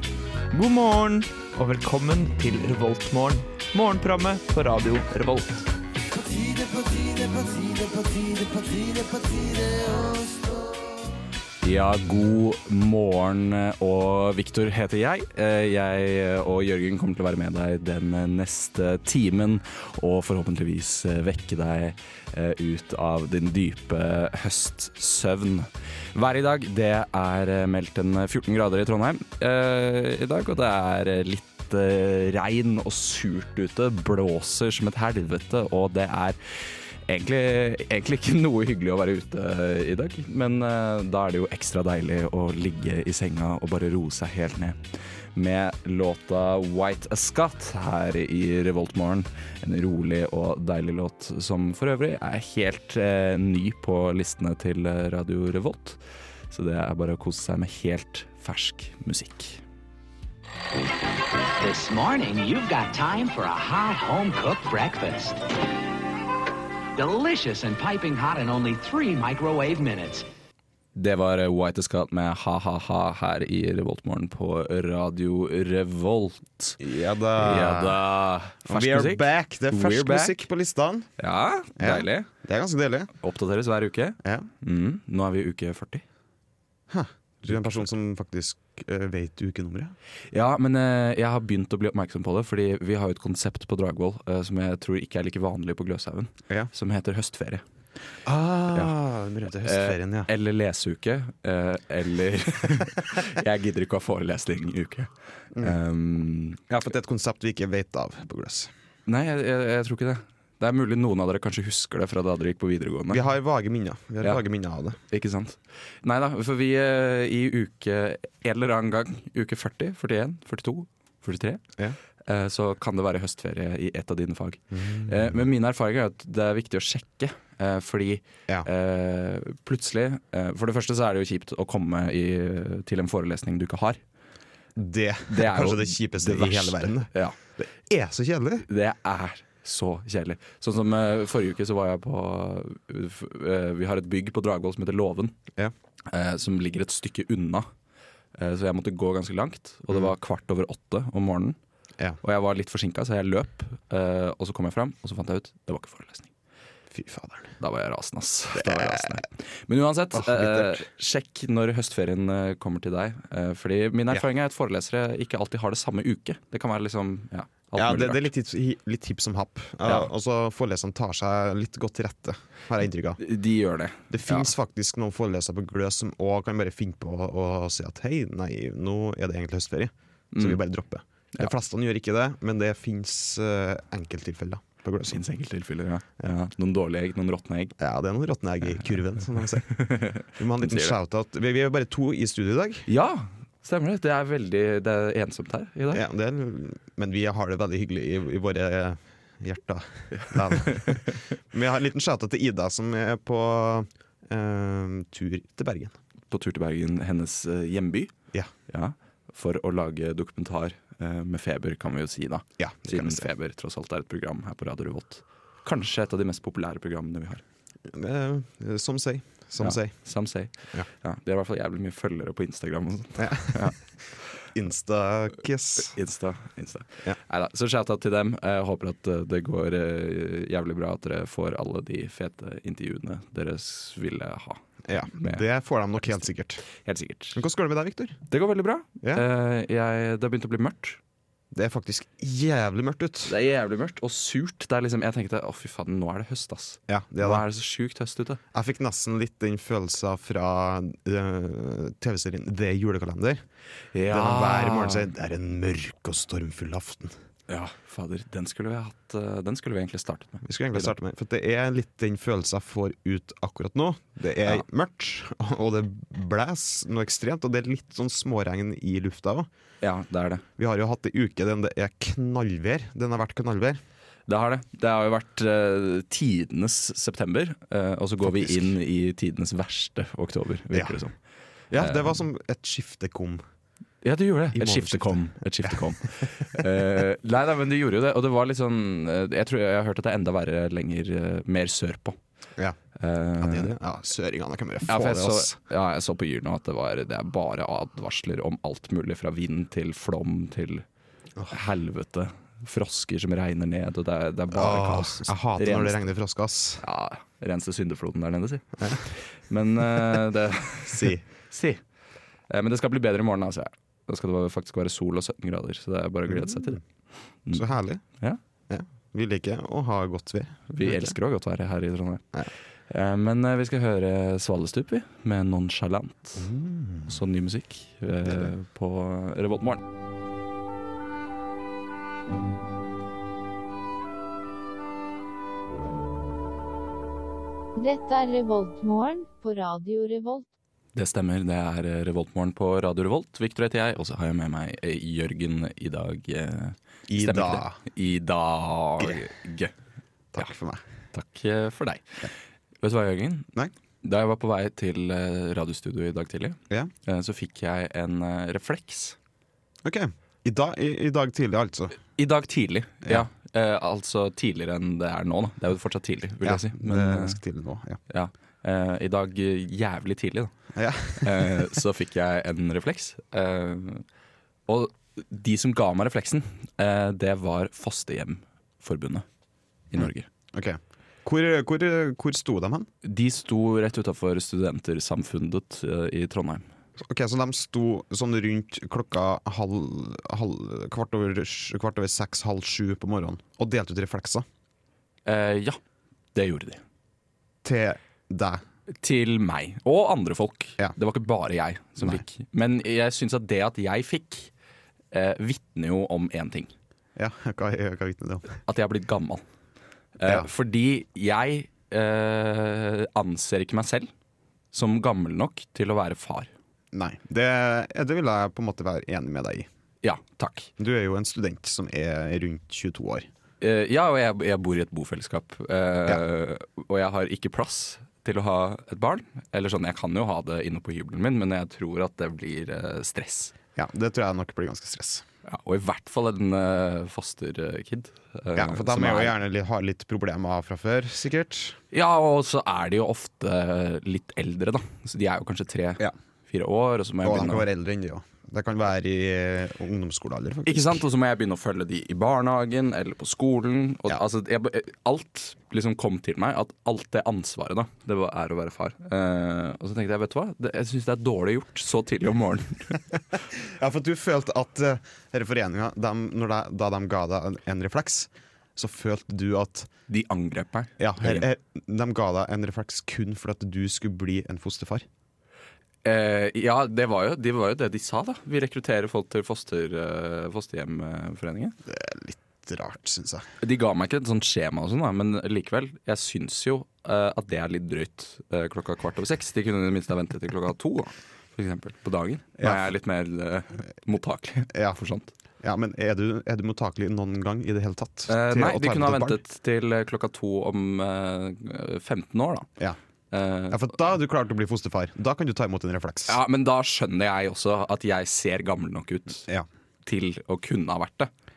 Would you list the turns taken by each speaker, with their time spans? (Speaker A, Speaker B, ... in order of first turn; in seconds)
Speaker A: 0.5-5.7, 6.3-10.4
Speaker B: 11.6-44.8, 45.3-59.6, 70.9-76.8, 77.3-80.5, 81.2-82.3, 83.2-86.0, 87.4-87.8, 90.3-97.6, 99.6-106.6, 109.0-113.2, 115.1-121.6, 122.2-134.0, 135.3-137.4, 138.6-145.3, 146.1-147.7, 148.3-151.6, 152.2-156.3, 157.6-168.3, 173.2-174.5, 180.3-180.6, 185.1-187.8, 189.6-190.9, 192.9-196.0, 200.3-200.9, 206.3-208.1, 208.7-217.4, 219.6-223.8, 225.8-235.4, 236.7-237.4, 238.3-241.0, 243.2-248.4, 253.9-255.1, 257.5-260.9, 269.8-270.4, 274.3-281.1, 281.8-282.2, 284.0-292.2, 292.9-293.7, 294.9-300.8, 301.5-306.1, 306.8-311.8, 312.5-316.8, 320.7-322.2, 322.9-326.5, 327.1-329.8, 340.9-349.7, 351.1-352.3, 352.8-359.2, 362.1-367.4, 368.1-370.6, 371.1-374.0, 374.7-379.2, 379.9-380.3, 383.0-386.6, 395.2-395.8, 396.3-396.8, 399.0-404.5, 405.1-406.7, 408.6-409.4, 410.2-414.1, 414.7-416.5, 420.0-420.7, 423.6-433.5, 435.4-439.4, 441.9-447.7, 450.6-463.0, 470.1-471.5, 476.0-481.8, 483.6-495.3, 498.3-502.7, 503.3-503.8, 506.3-509.4, 510.0-511.3
Speaker C: 61.6-65.4, 66.9-70.2
Speaker D: 76.8-78.0, 78.7-81.1, 81.8-83.1, 84.2-84.5, 86.9-89.9, 98.2-100.3, 106.7-108.7, 113.1-115.0, 124.7-125.3, 134.8-138.7, 156.9-157.5, 158.6-159.2, 160.1-160.8, 167.7-173.2, 174.1-185.2, 187.8-192.9, 195.9-205.9, 212.6-213.3, 217.9-219.9, 223.2-223.8, 224.5-225.9, 234.9-236.6, 237.3-238.2, 241.5-243.3, 246.9-247.4, 248.5-253.4, 254.1-257.1, 260.4-269.5, 270.6-273.8, 278.2-278.7, 281.7-283.4, 284.5-285.8, 293.4-295.6, 304.5-306.8, 310.9-311.2, 316.3-316.8, 317.5-318.0, 318.7-321.1, 326.4-327.2, 347.1-347.8, 350.3-350.8, 359.8-362.0, 366.4-368.0, 370.7-371.7, 379.9-382.9, 387.0-394.4, 397.6-398.6, 407.1-408.6, 416.9-419.7, 420.8-423.3, 433.8-435.2, 438.5-441.8, 447.2-451.0, 463.5-469.9, 471.0-475.1, 481.9-483.4, 494.7-495.0, 495.6-499.4, 503.7-506.4
Speaker E: 337.8-340.4